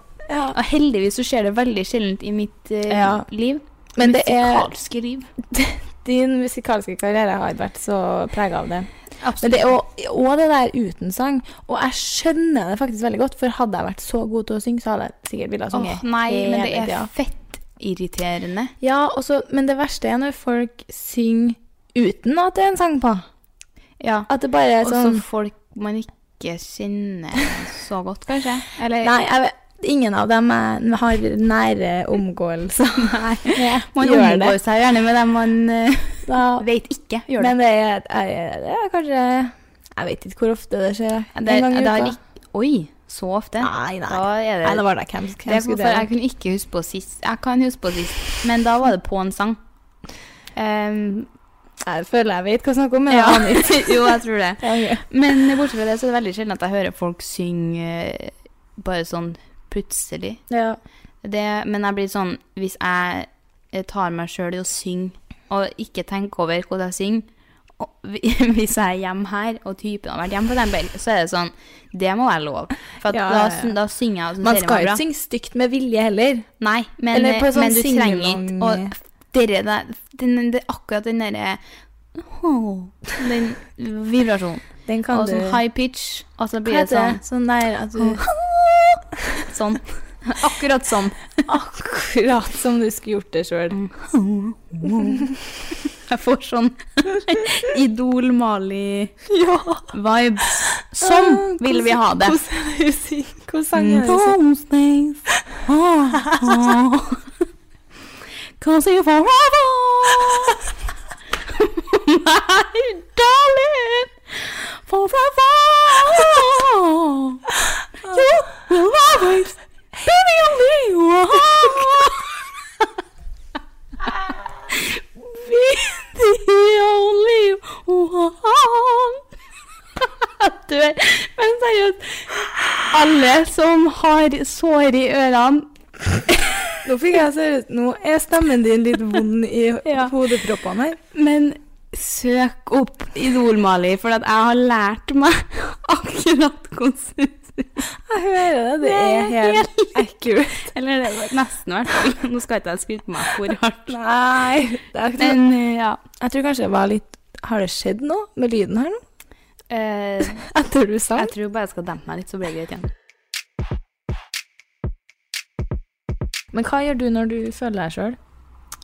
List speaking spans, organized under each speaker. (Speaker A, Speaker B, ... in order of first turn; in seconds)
Speaker A: 0.3-0.6, 2.9-3.3, 4.0-4.7, 5.5-17.1, 18.8-23.3, 24.3-25.2, 29.0-34.6, 36.2-36.7, 37.4-42.2, 43.6-46.1, 51.8-55.0, 60.5-60.8, 73.1-73.8, 74.4-76.5, 77.1-79.0, 84.9-85.6, 86.6-88.8, 91.5-93.8, 94.9-95.4, 99.3-99.9, 101.0-104.4, 106.2-106.7, 121.3-122.1, 136.8-141.0, 148.1-150.7, 153.9-155.4, 156.2-159.0, 160.4-161.3, 166.5-168.2
Speaker B: 0.5-5.3, 9.2-9.7, 15.7-18.7, 24.0-24.3, 24.8-29.1, 33.0-37.5, 41.4-44.9, 45.4-49.6, 50.5-51.3, 53.1-60.4, 61.2-67.3, 67.8-75.0, 76.6-81.6, 82.1-87.2, 88.0-88.3, 89.5-91.3, 93.7-95.3, 95.9-99.2, 99.9-102.4, 103.8-107.2, 108.6-110.6, 111.5-122.2, 124.7-129.2, 130.0-135.7, 136.3-136.6, 139.8-140.1, 141.1-147.8, 148.8-150.0, 150.6-154.0, 155.2-156.0, 159.7-160.5, 161.2-162.9